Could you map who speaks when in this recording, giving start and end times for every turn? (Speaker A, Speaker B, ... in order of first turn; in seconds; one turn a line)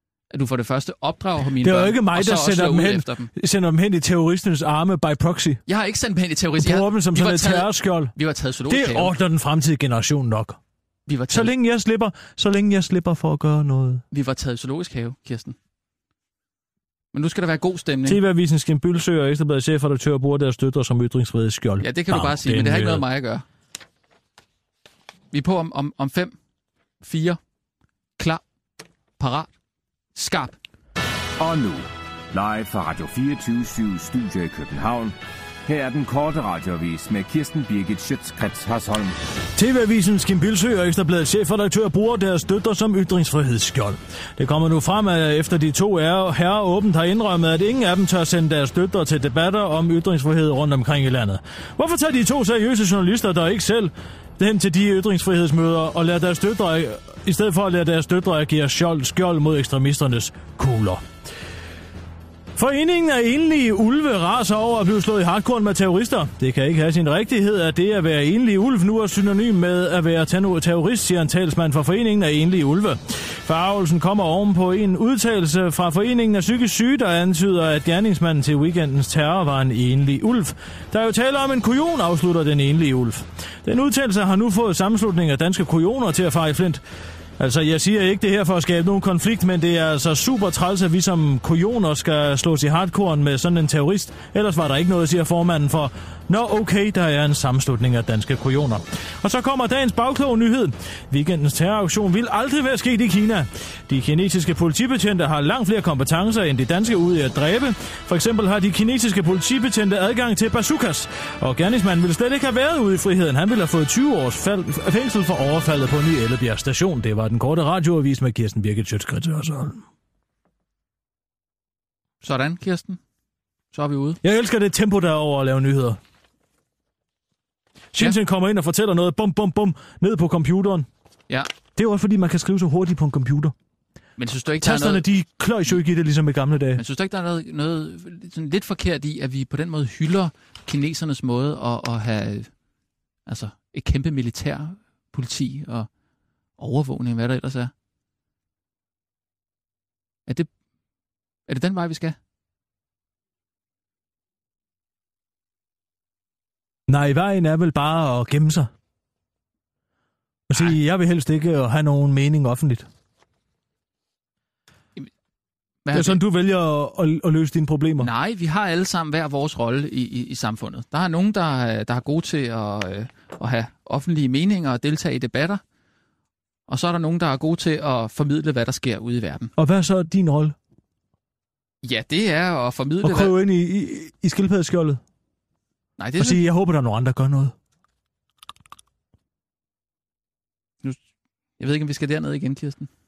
Speaker A: 0.3-3.3
Speaker B: 1.6-5.6
Speaker A: 5.7-9.1
Speaker B: 6.6-8.1
Speaker B: 8.7-10.6
Speaker A: 11.1-11.5
Speaker B: 11.3-14.0
Speaker A: 14.1-15.6
Speaker A: 17.1-18.2
Speaker B: 18.1-23.0
Speaker A: 21.8-23.4
Speaker A: 25.3-26.3
Speaker A: 27.0-27.4
Speaker A: 29.2-29.5
Speaker A: 30.1-30.6
Speaker C: 31.4-35.1
Speaker C: 35.6-39.1
Speaker B: 39.5-61.0
Speaker B: 62.5-86.8
Speaker B: 87.4-119.8
Speaker A: 122.2-123.0
Speaker A: 123.7-124.2
Speaker B: 124.2-126.0
Speaker B: 127.9-130.9
Speaker B: 131.8-133.5
Speaker A: 134.2-135.0
Speaker B: 134.6-136.8
Speaker A: 136.8-142.5
Speaker A: 143.3-145.9
Speaker A: 146.6-147.7
Speaker A: 151.5-152.2
Speaker B: 156.9-158.7
Speaker B: 160.5-162.9
Speaker A: 165.8-166.2
Speaker B: 165.9-168.1
Speaker A: 168.0-175.6
Speaker A: 176.7-179.5
Speaker B: 179.6-180.6
Speaker A: 181.8-183.4
Speaker B: 183.0-185.0
Speaker A: 186.0-186.4
Speaker B: 186.2-187.5
Speaker A: 191.6-192.9